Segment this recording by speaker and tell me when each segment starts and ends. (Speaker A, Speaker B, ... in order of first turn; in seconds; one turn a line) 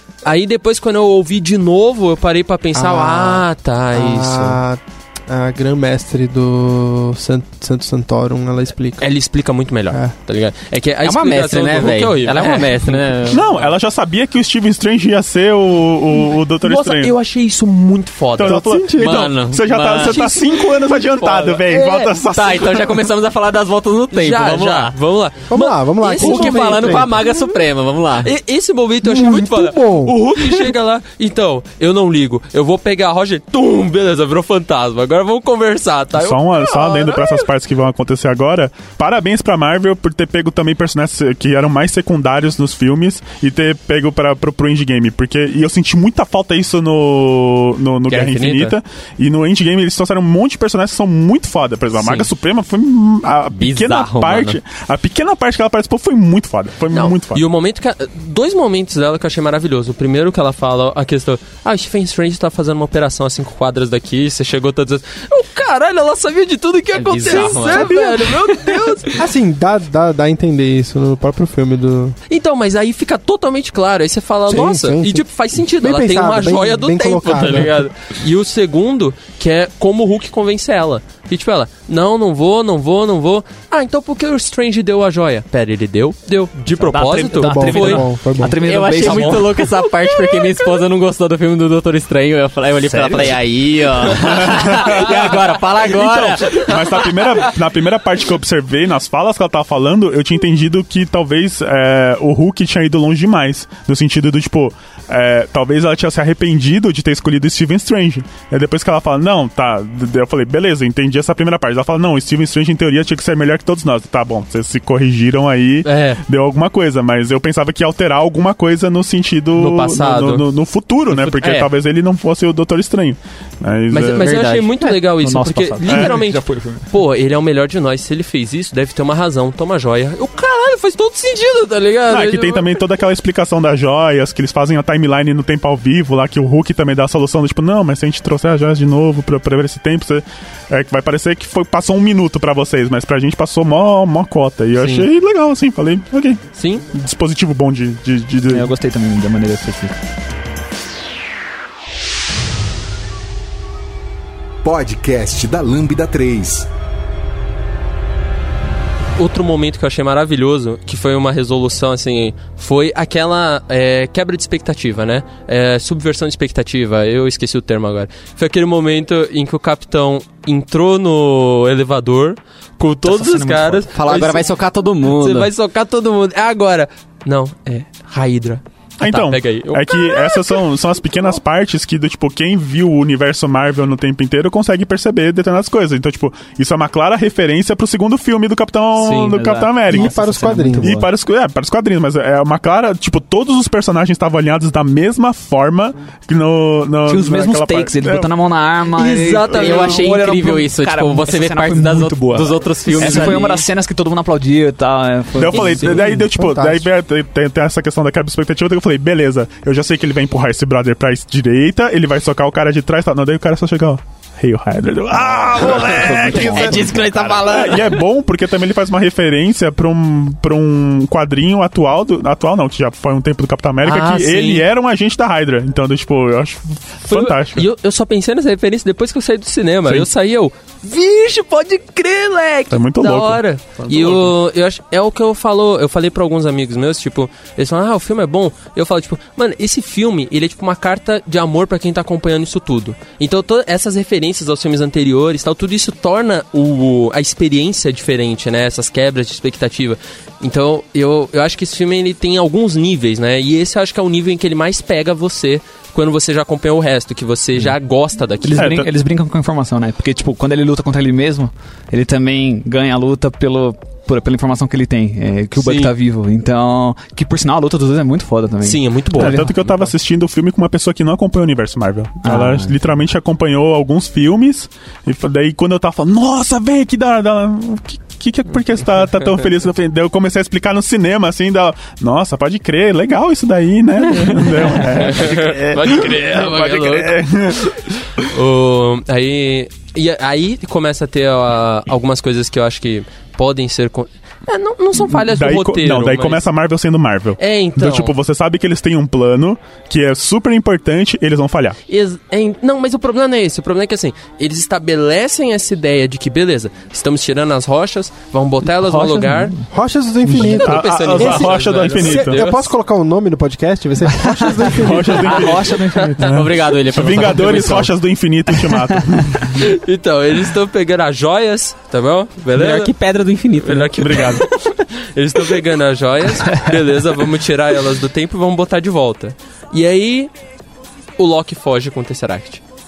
Speaker A: 0.2-4.6
Speaker B: 2.7-9.1
Speaker A: 9.0-13.1
Speaker C: 11.0-13.5
Speaker D: 13.3-17.1
Speaker A: 16.6-18.6
Speaker D: 18.4-23.0
Speaker B: 18.4-19.3
Speaker C: 19.0-20.4
Speaker A: 20.1-20.4
Speaker A: 21.1-22.2
Speaker C: 22.3-24.9
Speaker A: 24.1-27.5
Speaker B: 25.5-27.2
Speaker C: 26.2-28.3
Speaker A: 28.2-37.5
Speaker B: 29.0-30.7
Speaker D: 36.1-57.4
Speaker A: 48.1-48.8
Speaker A: 52.0-52.2
Speaker C: 53.5-54.6
Speaker A: 56.9-69.2
Speaker C: 66.9-68.1
Speaker B: 67.5-68.2
Speaker B: 69.1-72.2
Speaker A: 72.3-88.0
Speaker B: 74.5-77.9
Speaker E: 86.8-89.7
Speaker B: 87.4-88.6
Speaker C: 88.6-97.5
Speaker A: 89.0-89.4
Speaker E: 92.8-94.2
Speaker D: 94.2-124.3
Speaker A: 115.8-116.2
Speaker A: 119.5-120.5
Speaker A: 121.1-121.7
Speaker A: 123.9-132.8
Speaker C: 124.2-124.8
Speaker E: 125.0-126.9
Speaker D: 125.9-126.1
Speaker D: 132.1-148.7
Speaker A: 144.8-145.1
Speaker A: 146.5-146.8
Speaker E: 148.5-149.9
Speaker F: 154.6-156.7
Speaker A: 159.2-174.5
Speaker E: 173.0-174.3
Speaker C: 173.9-175.5
Speaker A: 175.1-180.6
Speaker D: 179.0-190.2
Speaker A: 188.9-189.3
Speaker E: 189.3-191.1
Speaker B: 189.9-191.0
Speaker D: 190.8-198.3
Speaker E: 197.1-206.2
Speaker A: 198.9-200.1
Speaker C: 199.5-203.7
Speaker D: 199.6-199.8
Speaker D: 205.3-227.6
Speaker B: 205.5-206.9
Speaker E: 215.2-217.1
Speaker C: 215.6-218.0
Speaker A: 223.8-224.7
Speaker A: 227.1-258.8
Speaker D: 232.7-234.3
Speaker E: 258.4-269.9
Speaker D: 258.6-258.9
Speaker A: 265.6-265.9
Speaker A: 268.6-269.4
Speaker D: 269.2-288.0
Speaker E: 272.2-272.8
Speaker A: 284.8-287.2
Speaker A: 288.2-296.4
Speaker D: 295.0-301.8
Speaker A: 297.4-298.1
Speaker A: 301.9-309.5
Speaker E: 308.6-309.6
Speaker B: 309.7-315.6
Speaker D: 310.2-312.5
Speaker A: 310.4-312.6
Speaker E: 314.1-316.4
Speaker D: 314.7-319.6
Speaker A: 315.8-316.1
Speaker C: 316.2-317.9
Speaker A: 319.5-322.9
Speaker C: 322.5-324.4
Speaker A: 323.6-324.5
Speaker D: 324.0-324.4
Speaker A: 325.1-330.3
Speaker A: 331.2-332.6